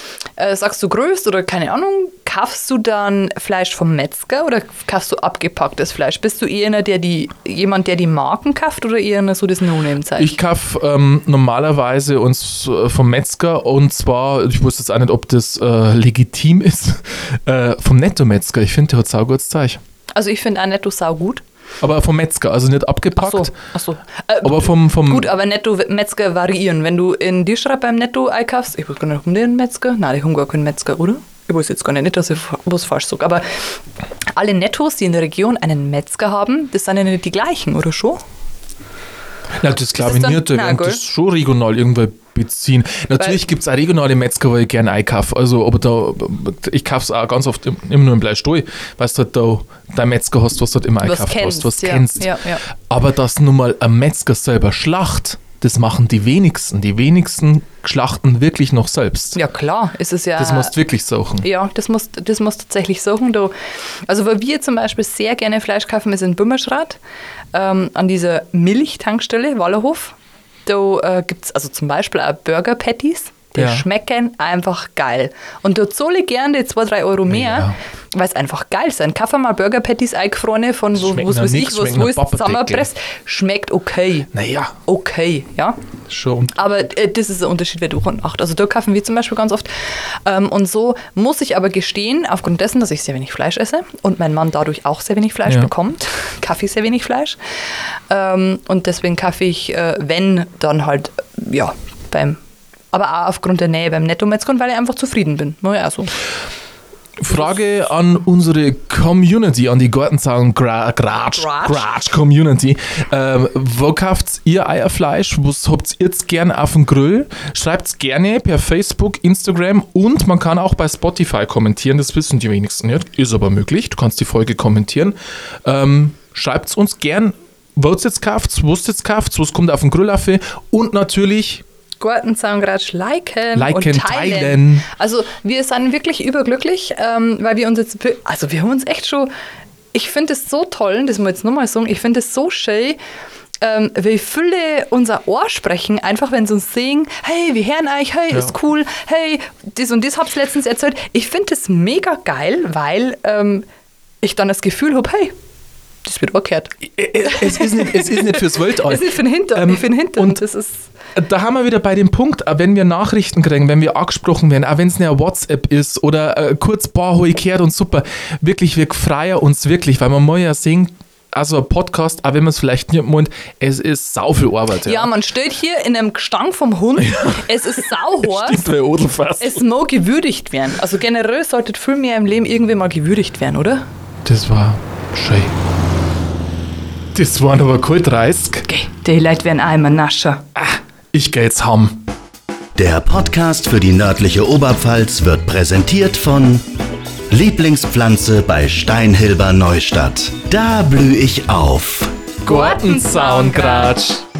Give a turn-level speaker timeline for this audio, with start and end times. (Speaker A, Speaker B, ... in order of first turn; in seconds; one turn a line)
Speaker A: 0.4-10.3
Speaker B: 10.1-19.8
Speaker A: 20.1-21.4
Speaker B: 21.8-23.6
Speaker A: 23.1-33.4
Speaker B: 24.4-25.3
Speaker A: 34.3-38.2
Speaker B: 39.6-59.4
Speaker A: 40.0-41.0
Speaker A: 51.0-52.6
Speaker A: 59.4-60.8
Speaker B: 60.4-61.5
Speaker A: 61.4-63.5
Speaker A: 64.1-67.0
Speaker A: 67.5-70.1
Speaker A: 70.7-84.3
Speaker B: 73.5-73.8
Speaker B: 77.3-77.8
Speaker B: 80.9-82.9
Speaker B: 84.3-84.7
Speaker A: 84.8-85.8
Speaker B: 86.1-86.5
Speaker A: 86.5-97.4
Speaker B: 95.5-95.7
Speaker A: 98.1-102.4
Speaker A: 102.9-106.2
Speaker B: 107.2-131.6
Speaker A: 111.3-111.9
Speaker A: 132.0-139.3
Speaker B: 133.5-134.9
Speaker A: 139.9-143.0
Speaker A: 143.6-153.6
Speaker A: 154.2-155.3
Speaker A: 156.0-160.9
Speaker B: 156.8-160.4
Speaker B: 161.1-175.1
Speaker A: 174.8-178.7
Speaker B: 177.0-179.6
Speaker A: 179.4-183.8
Speaker B: 184.2-185.5
Speaker B: 187.1-188.7
Speaker A: 188.7-190.4
Speaker B: 190.5-192.0
Speaker C: 192.8-196.7
Speaker C: 197.3-202.2
Speaker B: 202.4-204.2
Speaker A: 202.4-204.0